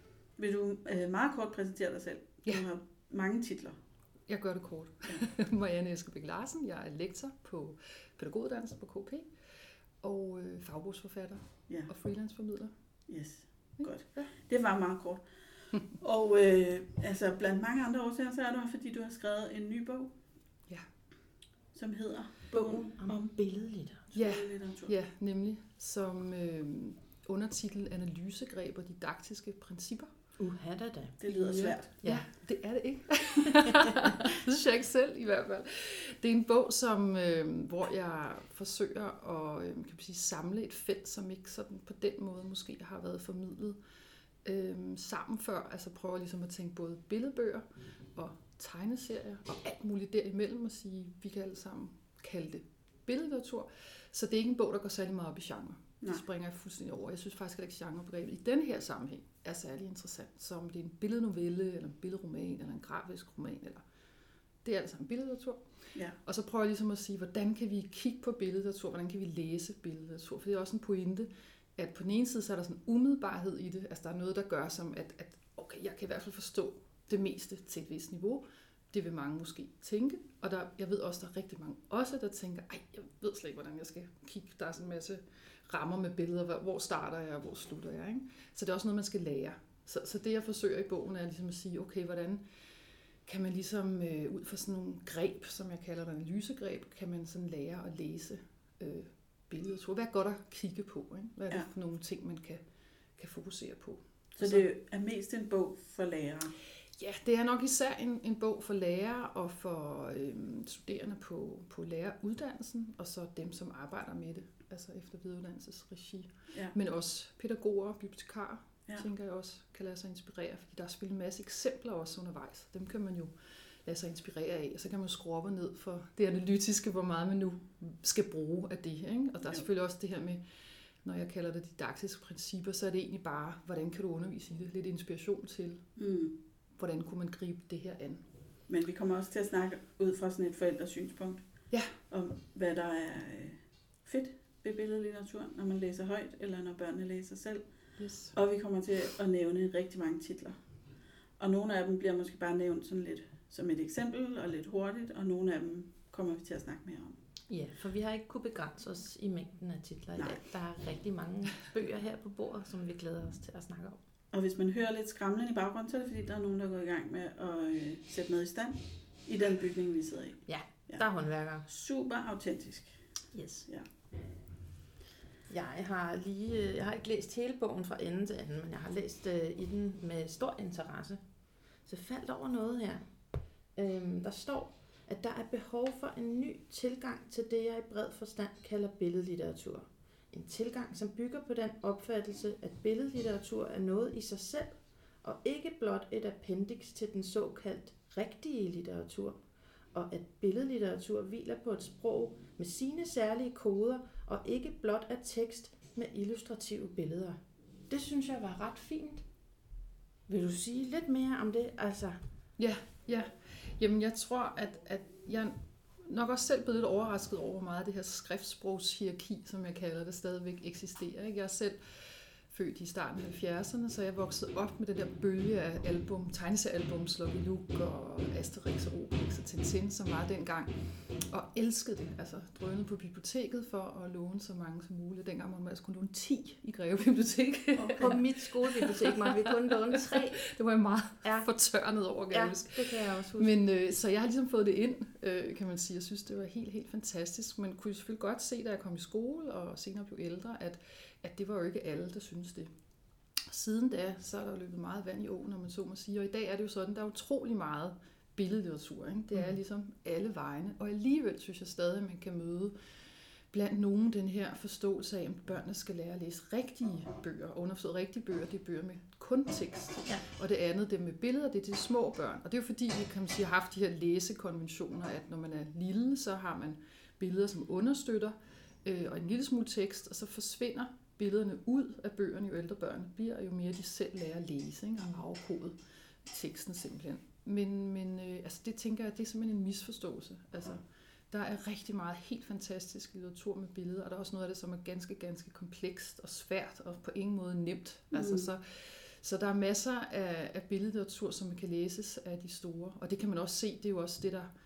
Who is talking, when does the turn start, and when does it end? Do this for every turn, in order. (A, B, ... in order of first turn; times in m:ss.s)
0:00.4-0:03.8 A
0:04.3-0:09.3 B
0:10.0-0:12.7 B
0:13.1-0:20.2 A
0:13.8-0:14.3 B
0:21.7-0:23.4 A
0:22.5-0:24.1 C
0:24.1-0:25.0 A
0:24.1-0:30.1 B
0:30.4-0:31.2 C
0:31.2-0:31.9 A
0:31.3-0:43.8 B
0:44.4-1:03.8 B
1:04.6-1:32.4 B
1:33.2-1:42.6 B
1:43.2-1:44.7 B
1:44.4-1:46.6 A
1:47.0-2:10.4 B
2:11.0-2:15.8 B
2:16.0-2:16.4 A
2:16.8-2:18.2 B
2:18.7-2:27.7 A
2:28.0-2:28.4 B
2:28.3-2:30.6 A
2:31.4-2:37.2 A
2:37.5-2:44.0 C
2:44.3-2:51.0 A
2:50.5-2:51.7 C
2:51.7-2:53.1 A
2:53.3-2:53.7 C
2:55.5-3:03.1 C
3:03.7-3:19.4 C
3:19.9-3:29.3 C
3:30.3-3:32.2 C
3:32.6-4:12.7 B
3:57.8-3:58.2 A
3:58.0-4:00.5 C
4:01.2-4:01.5 C
4:02.3-4:03.5 C
4:13.5-5:04.5 B
4:58.1-4:58.5 A